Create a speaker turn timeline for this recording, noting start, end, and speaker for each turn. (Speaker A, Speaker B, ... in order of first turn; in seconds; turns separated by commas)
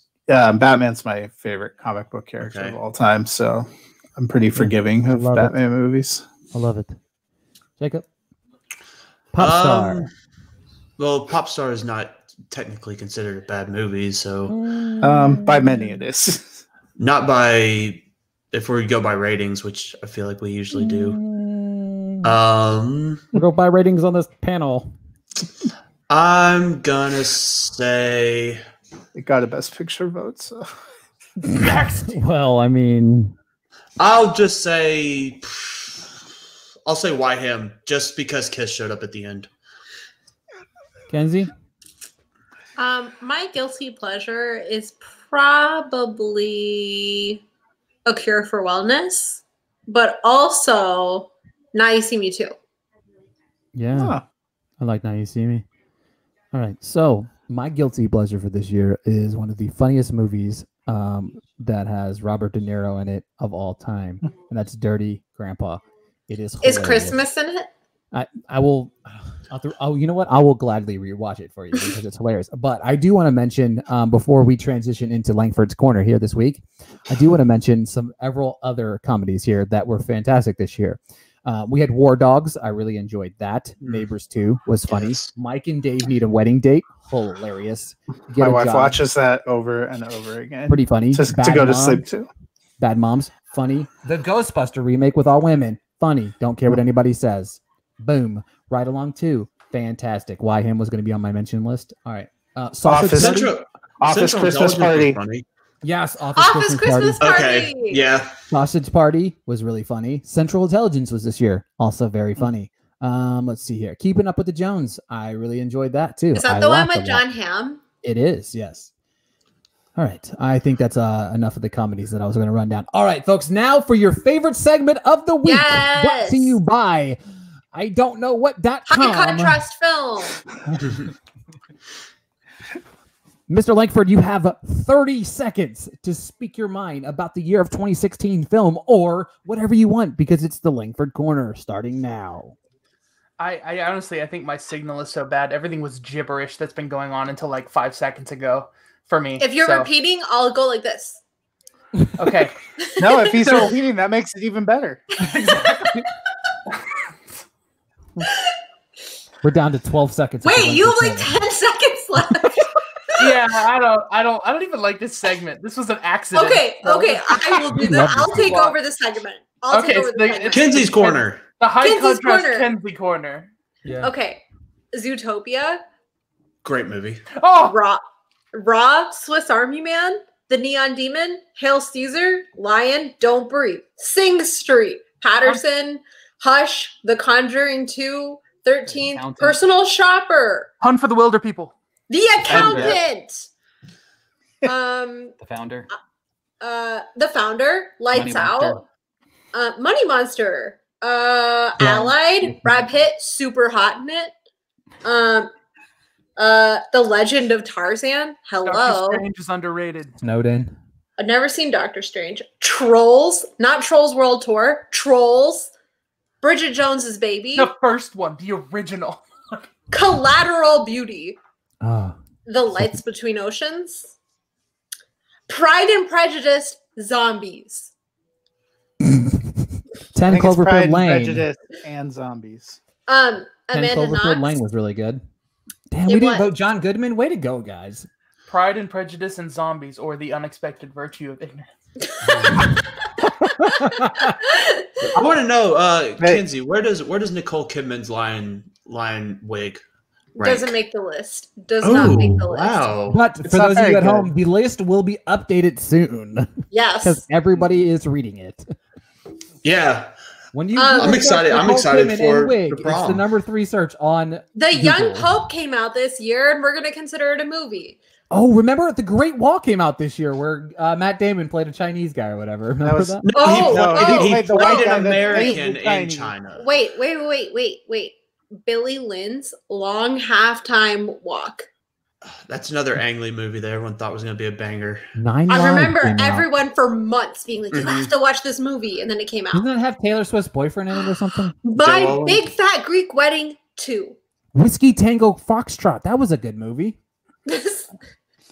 Speaker A: 0.3-6.2, Speaker B: 2.4-2.8, Speaker C: 4.5-5.5, Speaker C: 6.5-7.0, Speaker C: 7.8-8.1, Speaker C: 9.3-10.1, Speaker B: 9.4-10.1, Speaker B: 11.0-14.6, Speaker C: 14.5-16.0, Speaker A: 15.0-16.6, Speaker B: 17.0-21.2, Speaker C: 20.7-22.3, Speaker B: 22.2-23.3, Speaker C: 23.3-24.9, Speaker B: 26.1-28.6, Speaker A: 29.1-30.7, Speaker C: 31.4-33.4, Speaker D: 31.5-32.1, Speaker B: 34.0-36.0, Speaker B: 36.9-39.5, Speaker C: 41.1-41.5, Speaker E: 42.8-47.4, Speaker E: 48.0-52.5, Speaker C: 53.7-54.2, Speaker A: 53.9-54.2, Speaker C: 54.8-55.6, Speaker C: 56.5-67.2, Speaker E: 66.6-67.7, Speaker C: 68.1-89.0, Speaker B: 84.9-85.3, Speaker A: 88.4-92.3, Speaker C: 90.7-92.0, Speaker C: 92.8-103.5, Speaker A: 102.8-105.2, Speaker B: 103.0-105.4, Speaker C: 105.8-107.2, Speaker E: 106.4-108.0, Speaker B: 107.2-108.3, Speaker C: 108.5-117.2, Speaker E: 116.3-117.8, Speaker C: 118.0-118.9, Speaker C: 120.0-127.2, Speaker E: 125.4-126.6, Speaker C: 127.7-129.6, Speaker E: 128.9-130.5, Speaker C: 133.5-142.5, Speaker D: 143.4-149.9, Speaker E: 149.4-151.2, Speaker D: 152.2-152.5, Speaker E: 152.8-153.7, Speaker A: 153.0-155.1, Speaker D: 153.4-153.7, Speaker D: 155.2-156.0, Speaker E: 155.5-155.8, Speaker D: 156.7-157.0, Speaker C: 159.4-161.3, Speaker E: 160.4-163.3, Speaker C: 162.2-162.6, Speaker D: 163.2-168.8, Speaker E: 166.3-170.9, Speaker C: 167.7-168.6, Speaker D: 169.7-173.5, Speaker B: 170.5-171.4, Speaker E: 171.8-172.7, Speaker C: 173.8-174.1, Speaker E: 174.0-175.8, Speaker B: 176.6-177.2, Speaker D: 177.3-177.8, Speaker E: 177.6-178.0, Speaker E: 178.5-190.7, Speaker C: 188.8-189.6, Speaker D: 190.8-191.7, Speaker E: 192.1-193.5, Speaker C: 192.5-193.0, Speaker A: 192.5-193.0, Speaker E: 194.6-195.3, Speaker C: 195.4-195.9, Speaker E: 196.6-198.8, Speaker C: 198.1-198.8, Speaker E: 199.5-204.3, Speaker C: 201.8-202.7, Speaker E: 205.0-205.5, Speaker E: 206.4-209.2, Speaker D: 208.6-210.2, Speaker C: 210.2-210.7, Speaker E: 211.2-215.7, Speaker E: 216.4-217.7, Speaker D: 217.5-219.7, Speaker E: 219.9-221.4, Speaker C: 221.8-222.2, Speaker E: 222.4-224.1, Speaker E: 225.5-227.9, Speaker C: 229.0-231.4, Speaker A: 230.3-232.8, Speaker E: 233.1-234.6, Speaker C: 233.7-235.2, Speaker C: 235.9-238.1, Speaker E: 236.1-236.5, Speaker D: 238.5-241.7, Speaker B: 242.2-242.7, Speaker C: 242.6-244.4, Speaker E: 244.4-244.9, Speaker B: 245.0-249.8, Speaker E: 250.3-252.9, Speaker B: 250.4-250.8, Speaker B: 251.8-253.2, Speaker C: 253.1-258.7, Speaker A: 253.4-254.3, Speaker E: 256.7-257.2, Speaker B: 259.6-260.1, Speaker C: 260.5-265.3, Speaker E: 260.8-261.2, Speaker B: 260.9-263.2, Speaker E: 264.5-268.0, Speaker C: 268.3-273.3, Speaker A: 272.8-276.4, Speaker B: 273.2-276.7, Speaker E: 273.4-275.6, Speaker E: 276.6-281.7, Speaker B: 282.2-285.1, Speaker C: 285.1-286.5, Speaker E: 285.5-289.7, Speaker B: 287.7-288.1, Speaker C: 289.5-291.5, Speaker E: 291.6-294.2, Speaker B: 291.7-292.5, Speaker C: 294.5-297.0, Speaker E: 297.4-297.9